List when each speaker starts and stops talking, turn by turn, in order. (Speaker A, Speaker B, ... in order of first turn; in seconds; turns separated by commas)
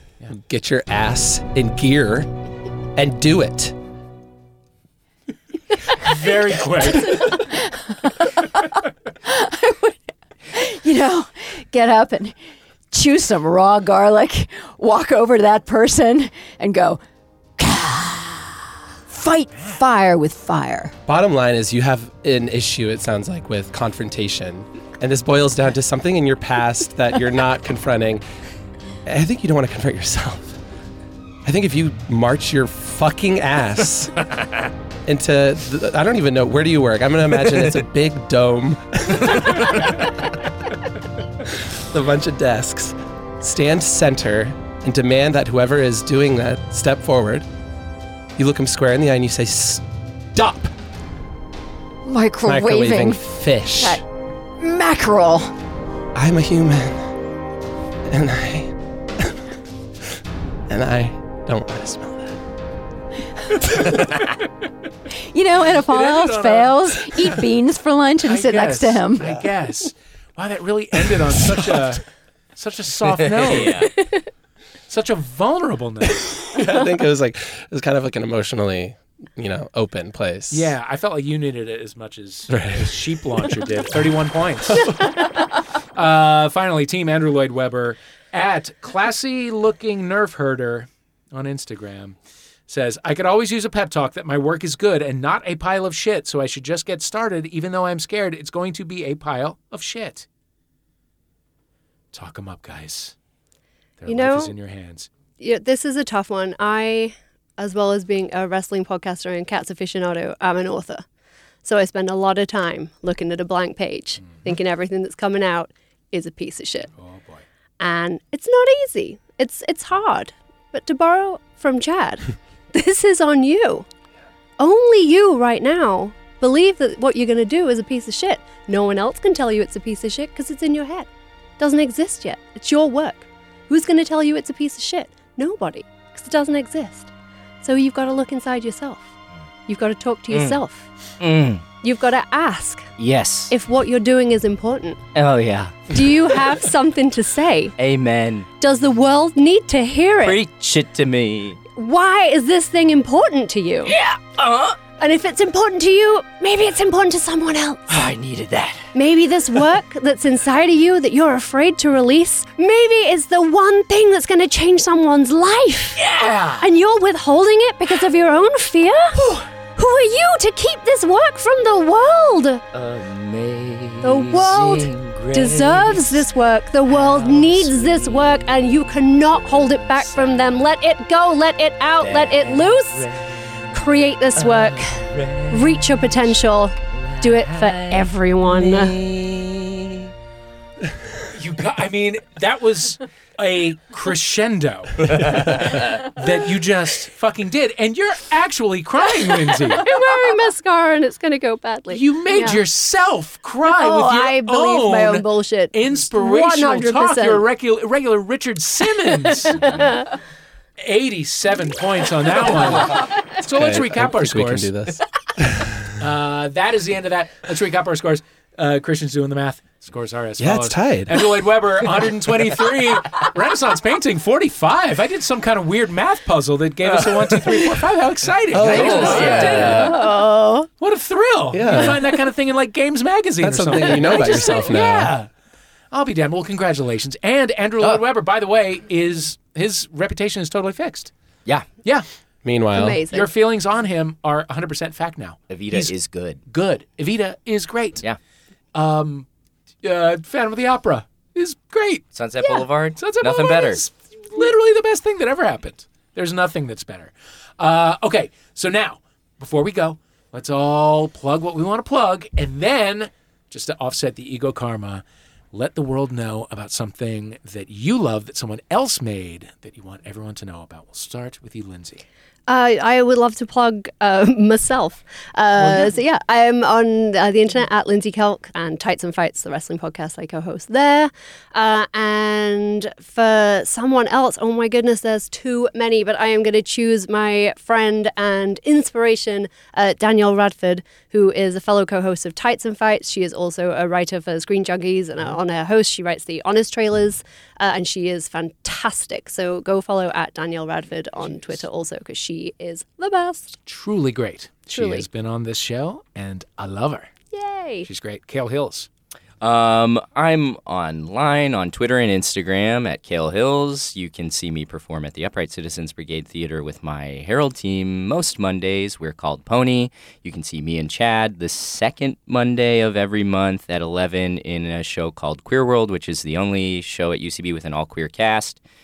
Speaker A: 0.3-2.3, Speaker A: 3.0-3.8, Speaker B: 6.0-7.4, Speaker C: 7.2-10.0, Speaker C: 10.5-12.4, Speaker C: 12.9-17.0, Speaker C: 17.6-20.9, Speaker A: 21.1-28.2, Speaker A: 29.1-30.6, Speaker A: 31.4-34.2, Speaker A: 35.1-40.0, Speaker A: 41.5-47.5, Speaker A: 48.4-49.8, Speaker A: 50.3-50.7, Speaker C: 52.0-53.2, Speaker A: 52.5-54.0, Speaker C: 53.8-54.0, Speaker C: 54.6-55.5, Speaker A: 56.1-57.1, Speaker A: 58.1-59.4, Speaker A: 60.7-62.4, Speaker C: 65.3-69.3, Speaker B: 65.9-67.4, Speaker B: 68.2-72.0, Speaker B: 72.6-73.9, Speaker D: 73.3-73.9, Speaker B: 74.9-76.6, Speaker A: 76.5-80.7, Speaker B: 80.5-84.9, Speaker A: 82.5-83.2, Speaker B: 86.0-92.2, Speaker B: 92.7-100.3, Speaker B: 102.1-103.2, Speaker B: 104.0-105.1, Speaker E: 104.1-104.5, Speaker E: 105.4-111.0, Speaker E: 111.6-116.9, Speaker B: 114.2-114.6, Speaker B: 117.0-117.4, Speaker E: 117.8-123.9, Speaker E: 124.6-131.1, Speaker E: 131.6-137.1, Speaker E: 137.6-139.1, Speaker E: 139.7-140.9, Speaker D: 140.3-140.6, Speaker D: 141.2-141.6, Speaker E: 141.8-142.9, Speaker D: 143.0-143.5, Speaker E: 143.5-145.0, Speaker D: 145.2-146.3, Speaker E: 145.9-147.8, Speaker D: 147.8-148.5, Speaker E: 148.6-150.4, Speaker D: 150.2-151.6, Speaker E: 151.8-153.9, Speaker D: 153.9-154.8, Speaker E: 155.0-158.0, Speaker D: 157.9-158.9, Speaker E: 158.9-169.2, Speaker B: 166.0-166.7, Speaker E: 169.8-172.6, Speaker D: 172.7-176.3, Speaker E: 174.0-183.1, Speaker D: 176.9-178.2, Speaker D: 180.0-180.7, Speaker D: 182.0-183.7, Speaker E: 183.7-189.0, Speaker D: 184.4-186.1, Speaker D: 186.9-190.1, Speaker B: 191.3-199.9, Speaker D: 195.1-195.7, Speaker E: 199.6-202.6, Speaker B: 201.9-209.7, Speaker E: 203.7-207.4, Speaker E: 209.3-210.2, Speaker D: 209.6-209.9, Speaker B: 210.8-214.7, Speaker A: 213.5-215.9, Speaker B: 216.0-230.0, Speaker A: 220.4-221.2, Speaker D: 227.2-227.6, Speaker A: 228.5-229.9, Speaker D: 228.7-230.0, Speaker E: 229.7-230.7, Speaker B: 230.8-235.3, Speaker A: 231.5-232.0, Speaker A: 233.4-235.1, Speaker B: 235.9-241.1, Speaker A: 242.4-243.1, Speaker E: 242.7-243.3, Speaker B: 243.1-245.9, Speaker D: 245.5-246.4, Speaker B: 246.5-248.0, Speaker B: 248.8-249.3, Speaker B: 249.8-252.1, Speaker D: 252.1-253.8, Speaker B: 253.0-272.0, Speaker E: 272.5-303.6, Speaker B: 275.6-275.9, Speaker B: 303.7-307.1, Speaker E: 304.7-305.1, Speaker E: 307.3-307.9, Speaker B: 307.8-308.9, Speaker D: 309.4-328.6